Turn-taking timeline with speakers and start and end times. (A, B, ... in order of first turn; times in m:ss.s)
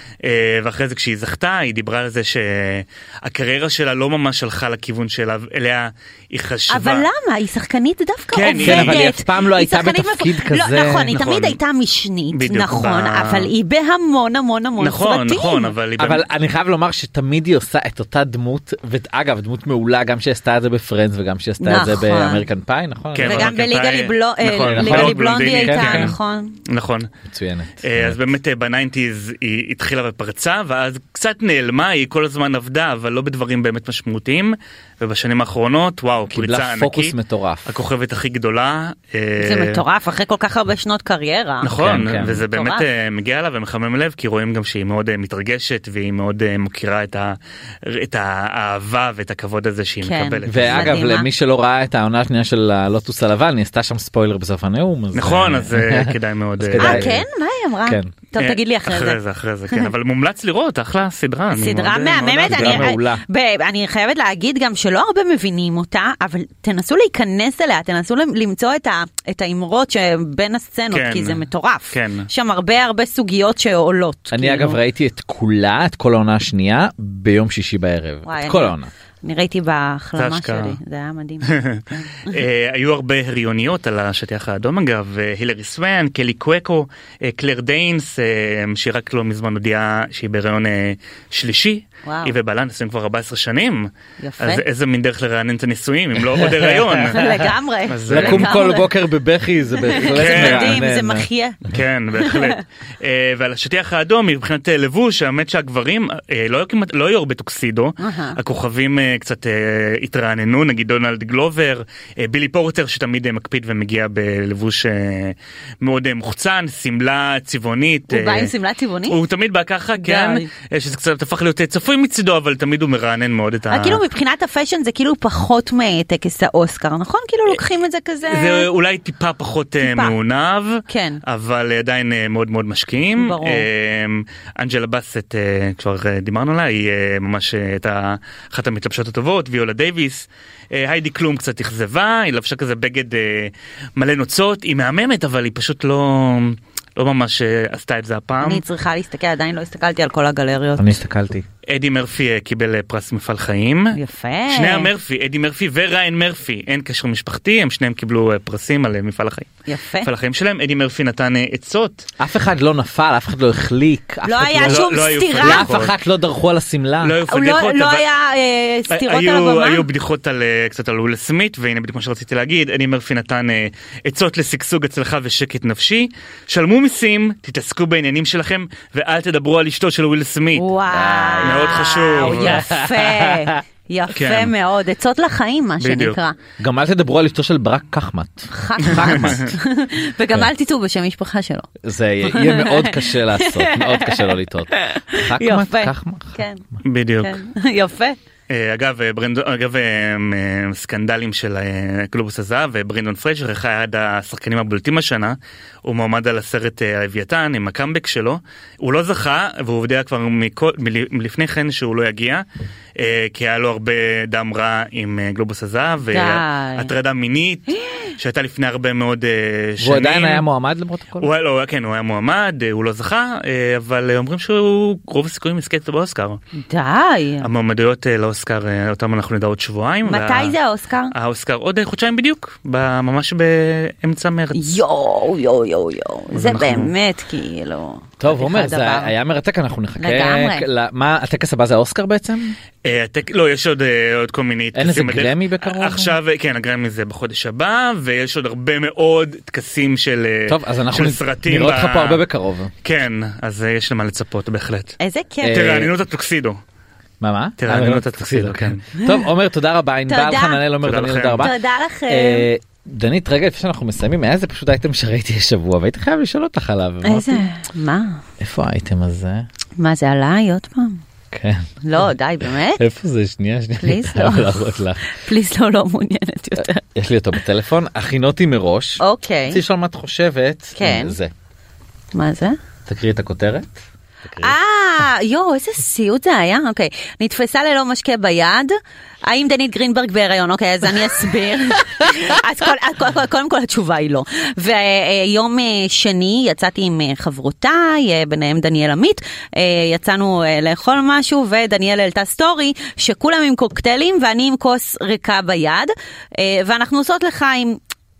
0:00.2-0:07.0 A
0:06.7-0:15.7 B
0:08.3-0:09.1 A
0:08.6-0:11.1 C
0:11.0-0:11.6 A
0:12.3-0:13.5 A
0:14.8-0:16.2 A
0:16.0-0:23.5 C
0:21.6-0:22.4 B
0:23.1-0:26.2 A
0:23.2-0:26.6 B
0:24.4-0:26.1 C
0:26.7-0:27.1 A
0:27.2-0:28.2 C
0:27.8-0:37.1 A
0:36.3-0:37.8 C
0:37.6-0:39.8 A
0:39.4-0:41.7 B
0:41.6-0:51.0 A
0:41.7-0:42.4 C
0:42.5-0:42.8 B
0:50.0-0:51.3 B
0:50.5-0:57.2 C
0:55.1-0:57.1 A
0:56.8-0:59.2 B
0:57.8-0:58.2 C
0:58.4-1:03.0 A
1:01.5-1:14.8 B
1:02.5-1:03.2 C
1:10.9-1:12.3 A
1:14.3-1:18.9 C
1:18.2-1:22.3 B
1:20.2-1:20.8 A
1:21.4-1:37.2 A
1:32.0-1:32.3 B
1:34.2-1:34.6 B
1:36.4-1:37.4 C
1:37.1-1:38.9 B
1:37.9-1:38.7 A
1:38.1-1:41.3 C
1:39.8-1:41.6 B
1:40.0-1:40.8 A
1:41.7-1:58.5 A
1:48.0-1:48.4 B
1:58.1-1:59.2 B
1:59.1-2:04.0 A
2:00.0-2:00.5 B
2:03.7-2:08.7 B
2:08.2-2:28.6 A
2:09.8-2:10.1 B
2:10.9-2:11.2 B
2:13.2-2:13.7 B
2:28.4-2:31.0 B
2:30.8-2:31.4 C
2:31.7-2:34.0 A
2:33.9-2:34.9 B
2:34.5-2:42.0 A
2:39.7-2:40.1 B
2:42.2-2:47.2 C
2:44.2-2:45.8 B
2:44.6-2:45.9 A
2:47.0-2:48.0 A
2:47.3-2:49.8 B
2:48.9-3:00.7 A
3:00.5-3:06.3 B
3:00.9-3:03.6 C
3:01.4-3:02.7 A
3:04.1-3:04.5 A
3:05.8-3:06.2 A
3:06.6-3:09.5 C
3:08.5-3:11.7 B
3:08.8-3:09.5 A
3:11.8-3:16.4 C
3:12.3-3:16.6 B
3:16.8-3:17.4 A
3:17.2-3:18.2 B
3:18.5-3:32.4 A
3:33.0-3:40.4 A
3:36.1-3:36.9 B
3:37.7-3:38.1 B
3:39.8-3:41.3 C
3:41.2-3:46.4 A
3:46.7-3:47.5 B
3:47.4-3:50.6 A
3:50.0-3:51.1 B
3:51.1-3:54.8 A
3:54.5-3:59.1 B
3:56.3-3:56.9 A
3:58.2-4:02.6 C
4:00.0-4:00.6 B
4:02.8-4:12.2 A
4:04.7-4:06.2 C
4:10.5-4:12.7 C
4:12.8-4:16.6 A
4:15.0-4:15.8 B
4:15.4-4:15.9 C
4:17.2-4:27.5 C
4:17.6-4:18.9 A
4:19.0-4:19.2 B
4:20.1-4:20.6 B
4:20.8-4:21.5 A
4:21.4-4:22.5 B
4:27.0-4:28.2 B
4:28.4-4:29.5 C
4:29.8-4:31.0 B
4:31.3-4:35.2 C
4:31.8-4:32.8 B
4:33.8-4:36.8 B
4:36.6-4:41.3 C
4:39.0-4:39.6 B
4:40.8-4:41.2 B
4:42.1-4:42.6 B
4:42.8-4:44.6 C
4:44.4-5:07.8 B